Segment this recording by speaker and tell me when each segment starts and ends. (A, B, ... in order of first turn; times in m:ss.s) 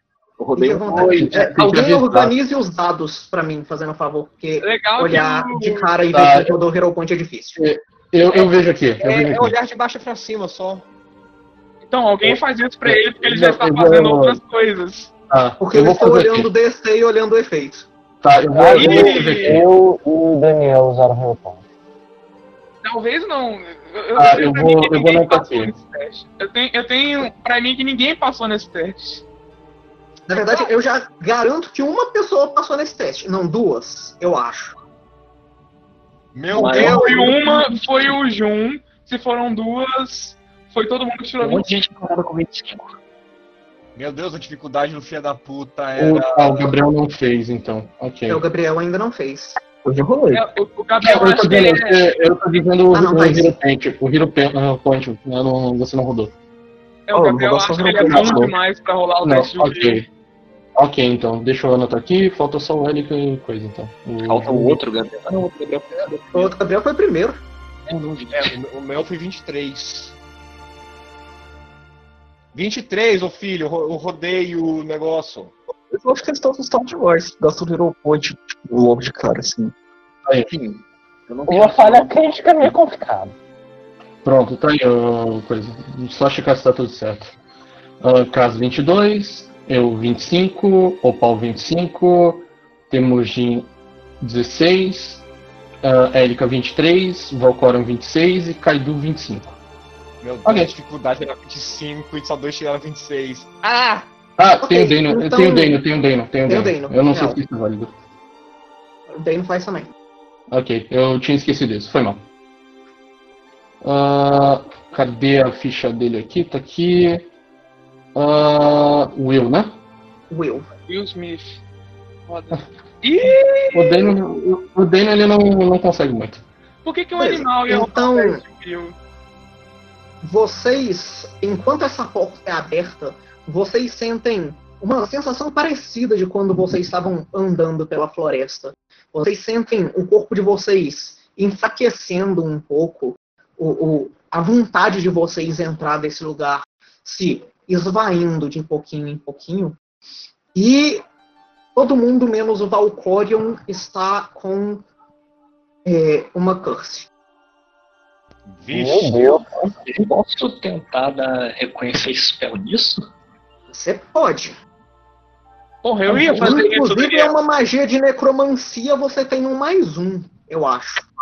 0:00.4-0:01.5 A
0:00.6-0:07.6 B
0:00.9-0:02.3 C
0:04.6-0:05.8 D
0:06.1-0:06.6 C
0:07.6-0:09.5 C
0:08.2-0:10.8 E
0:11.8-0:15.2 D
0:12.2-0:14.4 C
0:15.3-0:16.5 C
0:15.6-0:17.9 B
0:18.2-0:19.6 C
0:18.5-0:21.6 F
0:18.6-0:19.6 E
0:22.8-0:29.2 D
0:24.1-0:25.7 C
0:30.3-0:34.8 B
0:36.3-0:37.5 E
0:36.5-0:37.6 A
0:36.7-0:41.7 D
0:41.4-0:43.0 A
0:43.9-0:46.7 E
0:46.0-0:48.4 C
0:48.3-0:49.6 B
0:49.8-0:50.4 G
0:50.3-0:52.1 D
0:51.0-0:56.3 C
0:52.9-0:53.6 B
0:57.1-1:00.0 D
0:57.1-0:58.5 G
0:58.0-0:58.5 C
0:59.2-1:00.0 C
1:00.8-1:04.8 C
1:04.2-1:06.5 A
1:06.3-1:07.4 B
1:07.9-1:08.5 A
1:08.3-1:10.2 E
1:12.5-1:15.6 E
1:15.9-1:19.7 G
1:20.5-1:22.8 A
1:21.5-1:23.3 F
1:24.2-1:27.3 C
1:28.0-1:33.7 C
1:34.2-1:35.2 C
1:35.8-1:39.6 C
1:40.2-1:44.1 E
1:40.4-1:40.7 C
1:44.4-1:47.9 C
1:44.6-1:45.8 B
1:46.5-1:47.4 B
1:49.1-1:49.9 B
1:50.5-1:52.2 C
1:53.8-1:57.3 C
1:58.1-1:59.8 C
2:00.3-2:00.7 B
2:00.9-2:01.6 D
2:02.3-2:04.1 D
2:03.7-2:06.4 C
2:06.8-2:09.0 D
2:07.2-2:08.4 B
2:10.2-2:29.8 B
2:30.5-2:31.0 B
2:31.7-2:34.8 B
2:35.8-2:37.1 B
2:38.5-2:39.3 E
2:38.7-2:39.5 F
2:39.6-2:43.0 A
2:43.7-2:44.6 B
2:45.8-2:47.3 D
2:46.1-2:51.1 B